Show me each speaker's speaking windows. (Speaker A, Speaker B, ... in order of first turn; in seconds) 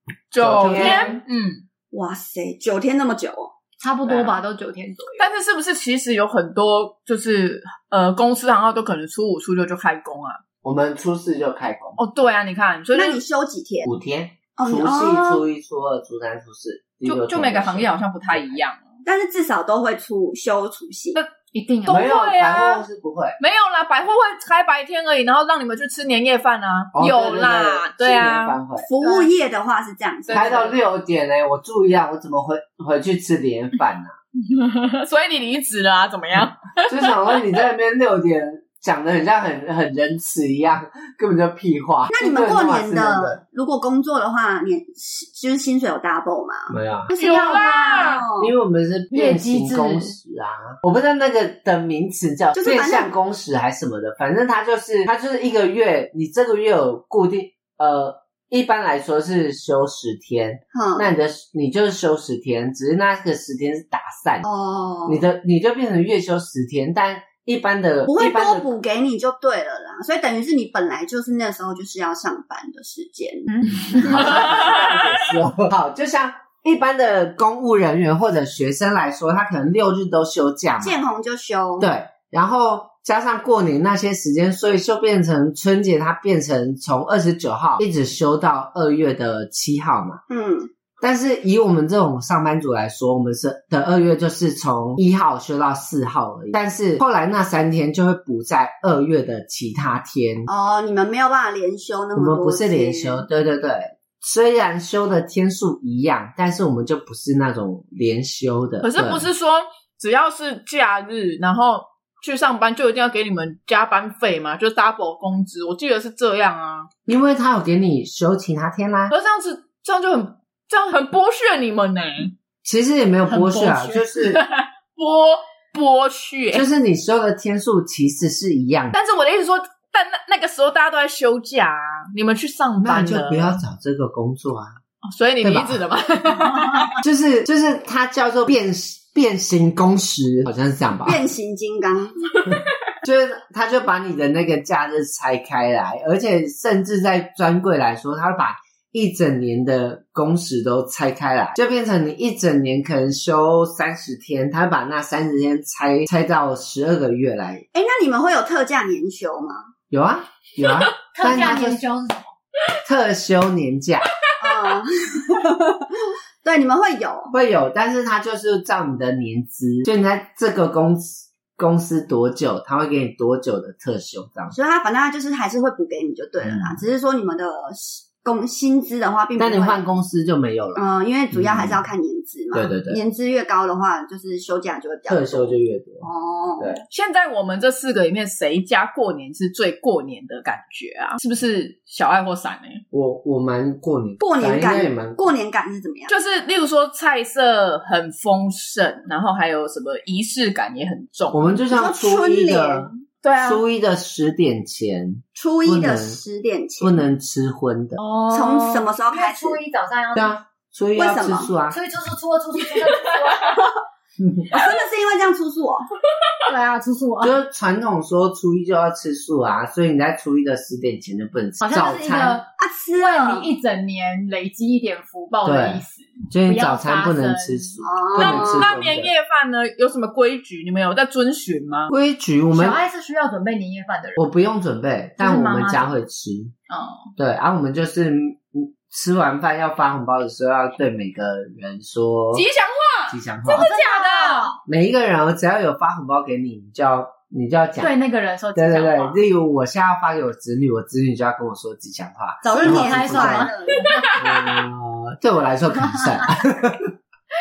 Speaker A: 0.3-1.6, 5.2-10.4, 12.0-13.2, 17.1-19.0, 21.9-22.8, 23.4-28.6, 34.4-37.4, 47.2-48.2, 74.4-75.2, 108.8-116.9, 119.1-122.3, 124.3-126.7, 128.9-133.6, 135.0-137.0, 186.9-192.8, 196.1-201.6, 203.2-203.6, 208.0-208.9, 228.2-231.9, 242.3-244.5
Speaker B: 0.4-1.2, 10.6-12.0, 13.8-18.6, 21.9-23.4, 26.9-28.9, 30.3-34.1, 36.9-43.4, 46.7-47.1, 48.4-64.5, 65.1-68.7, 73.7-81.0, 81.8-90.2, 91.0-100.5, 102.2-109.3, 117.1-119.1, 122.6-124.4, 126.5-128.9, 132.8-134.8, 135.4-135.8, 137.0-141.2, 143.0-157.7, 159.9-161.8, 162.8-164.1, 167.3-174.6, 176.4-176.8, 179.4-181.8, 182.5-183.0, 185.1-186.1, 186.6-186.8, 192.9-195.3, 201.3-206.2, 206.8-208.0, 210.2-211.8, 214.2-214.5, 217.2-222.4, 225.4-229.1, 231.9-232.8, 234.2-236.5, 237.2-242.5, 243.1-243.7, 244.7-247.9, 248.6-253.5, 254.2-256.9
Speaker C: 0.7-1.0, 1.9-3.5, 12.9-13.9, 14.6-15.4, 19.1-21.2, 28.8-30.7, 42.1-46.8, 47.3-48.5, 52.6-53.1, 60.7-61.1, 64.4-65.2, 68.1-74.7, 80.8-81.9, 90.3-90.7, 100.5-103.2, 141.1-142.4, 157.7-159.6, 164.4-167.3, 174.5-179.8, 180.8-186.8, 194.2-196.1, 201.7-203.0, 205.4-207.0, 208.3-209.6, 211.0-211.5, 214.5-215.9, 222.6-223.5, 227.8-228.7, 252.5-254.0
Speaker D: 3.8-5.3, 21.1-22.1, 29.0-29.3, 47.1-48.3, 49.1-50.1, 73.5-74.0, 123.3-124.1, 136.5-136.9, 161.1-162.3, 209.1-210.4, 211.7-213.6, 216.5-217.4, 221.6-227.8, 232.5-234.3, 235.2-235.9, 236.7-237.1, 243.5-244.6, 247.8-249.2, 252.4-254.2